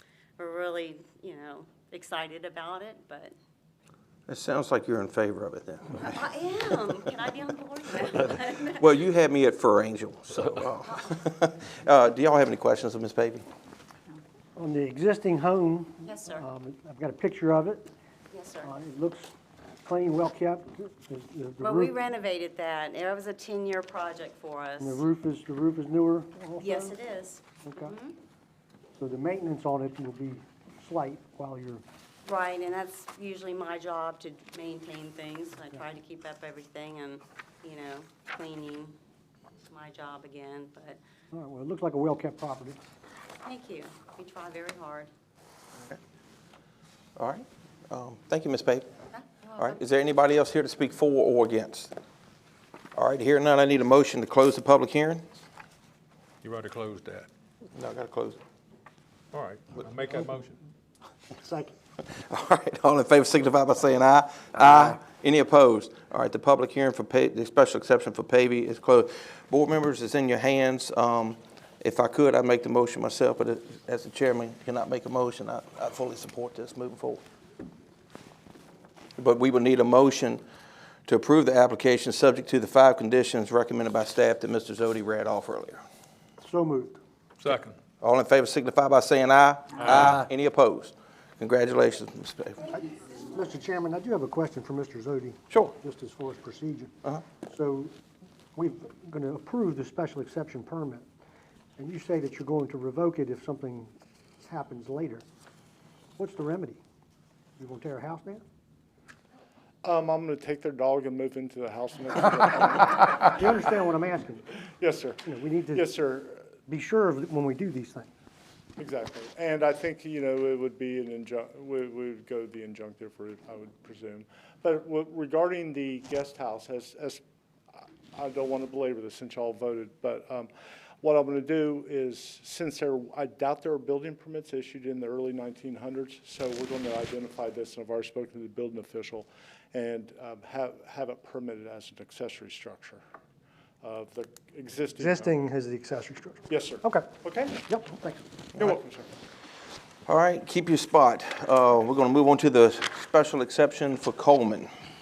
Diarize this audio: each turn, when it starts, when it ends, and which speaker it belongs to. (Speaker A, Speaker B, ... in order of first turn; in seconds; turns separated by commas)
Speaker A: 0.4-3.3, Speaker B: 4.3-5.9, Speaker A: 5.9-9.0, Speaker B: 8.8-10.5, Speaker C: 9.6-9.9, Speaker A: 10.8-11.2, Speaker B: 11.3-13.4, Speaker D: 14.6-17.9, Speaker A: 16.0-16.4, Speaker A: 18.3-18.7, Speaker D: 18.6-19.3, Speaker D: 19.8-21.9, Speaker A: 21.6-25.0, Speaker D: 24.8-27.0, Speaker A: 26.6-28.1, Speaker D: 27.6-27.9, Speaker D: 29.0-31.8, Speaker A: 32.2-39.0, Speaker A: 39.7-41.0, Speaker D: 41.3-42.8, Speaker A: 43.4-45.1, Speaker B: 47.2-48.9, Speaker A: 49.1-49.8, Speaker B: 49.8-51.9, Speaker C: 50.8-51.1, Speaker C: 53.0-54.0, Speaker B: 53.0-55.2, Speaker E: 56.4-57.3, Speaker C: 57.8-58.1, Speaker B: 57.8-58.4, Speaker E: 59.3-60.6, Speaker D: 61.3-61.7, Speaker B: 62.1-77.2, Speaker C: 63.8-65.1, Speaker C: 66.4-66.7, Speaker B: 79.2-80.4, Speaker B: 81.1-85.8, Speaker C: 81.8-82.1, Speaker D: 86.4-87.0, Speaker E: 87.4-87.8, Speaker B: 88.0-92.6, Speaker C: 89.0-89.4, Speaker E: 89.8-90.2, Speaker D: 92.7-97.9, Speaker D: 98.5-101.0, Speaker D: 101.8-105.2, Speaker D: 106.2-106.8, Speaker D: 107.6-108.4, Speaker C: 109.8-113.1, Speaker D: 113.3-114.4, Speaker C: 114.8-116.5, Speaker D: 115.2-116.0, Speaker D: 116.7-118.1, Speaker C: 118.8-127.2, Speaker C: 128.1-143.0, Speaker C: 143.8-145.3, Speaker D: 144.9-147.1, Speaker C: 146.5-147.6, Speaker D: 147.6-148.4, Speaker C: 148.6-149.1, Speaker B: 150.1-154.7